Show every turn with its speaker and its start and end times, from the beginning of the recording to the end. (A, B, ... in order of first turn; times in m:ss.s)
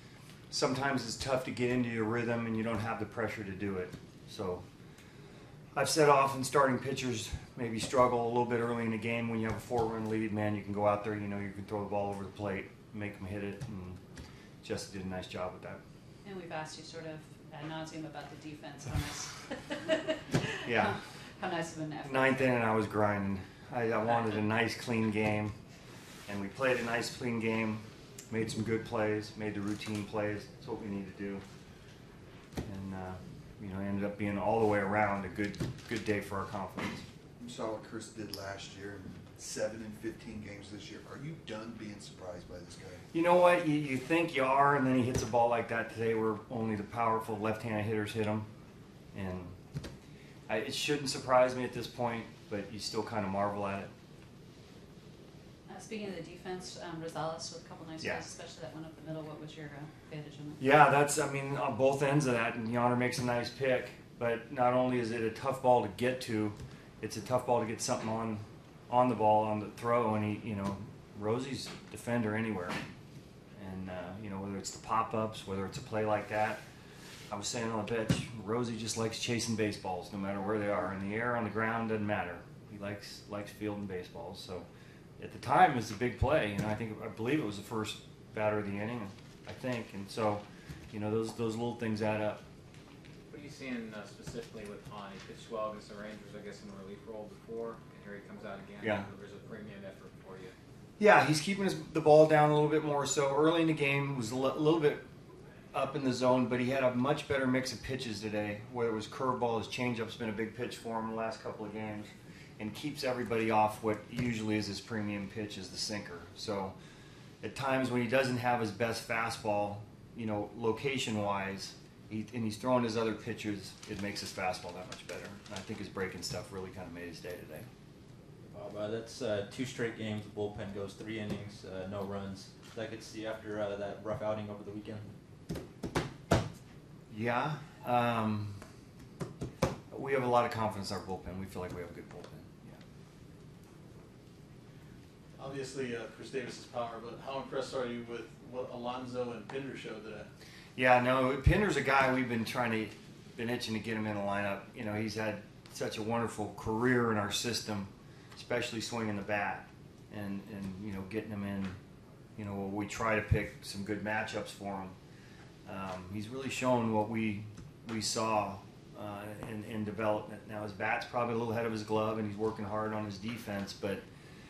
0:00.5-0:04.6 A
0:05.7-0:14.0 A
0:14.6-0:15.8 A
0:16.2-0:22.6 B
0:20.6-0:21.0 A
0:22.0-0:25.5 A
0:26.3-0:31.4 A
0:32.6-0:37.0 A
0:37.4-0:43.0 C
0:43.1-0:48.5 A
0:49.1-0:49.5 A
0:50.5-0:53.9 A
0:55.7-1:00.6 B
1:00.6-1:12.8 A
1:13.6-1:16.6 A
1:17.3-1:24.6 A
1:25.2-1:32.4 A
1:33.3-1:40.6 D
1:38.8-1:39.1 A
1:41.0-1:45.0 A
1:45.7-1:56.7 A
1:57.4-2:07.7 A
2:08.4-2:15.1 E
2:17.1-2:18.6 A
2:19.9-2:22.7 A
2:25.4-2:30.3 F
2:30.8-2:41.8 A
2:42.4-2:45.0 A
2:45.7-2:54.0 A